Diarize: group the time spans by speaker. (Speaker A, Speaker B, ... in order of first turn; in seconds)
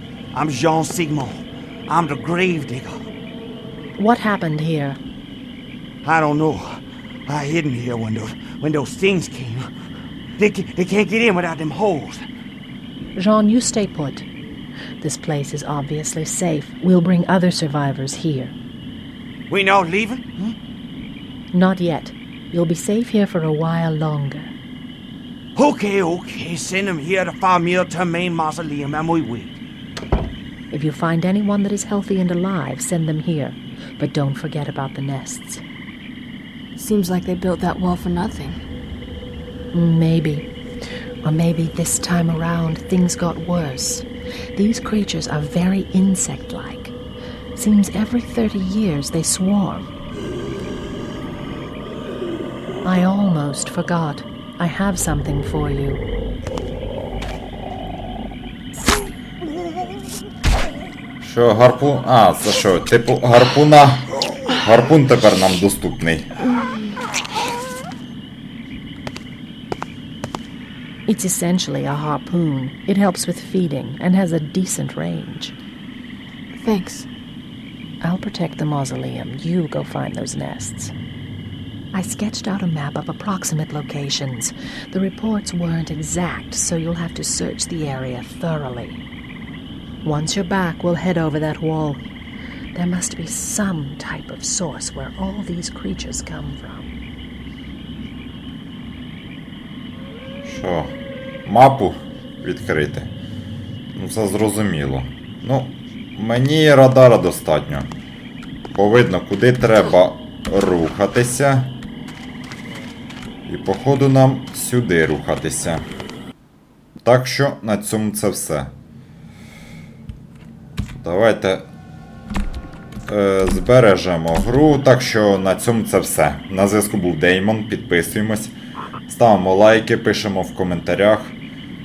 Speaker A: 0.3-3.1, 6.0-6.8, 7.3-9.7, 10.4-12.2, 19.5-20.6, 25.6-29.6
Speaker B: 4.0-5.0, 13.2-14.3, 15.0-18.6, 21.5-24.5, 30.7-35.6, 39.7-40.5, 41.2-46.9, 47.5-49.9, 52.8-56.0, 71.1-75.5, 78.0-80.9, 81.9-89.0, 90.0-92.0, 92.8-96.9
Speaker C: 36.8-38.6, 76.5-77.1
Speaker D: 61.2-66.3, 100.5-100.9, 101.5-103.1, 104.0-107.9, 108.7-111.8, 113.5-115.8, 117.0-118.7, 121.0-121.7, 123.1-128.5, 129.1-131.4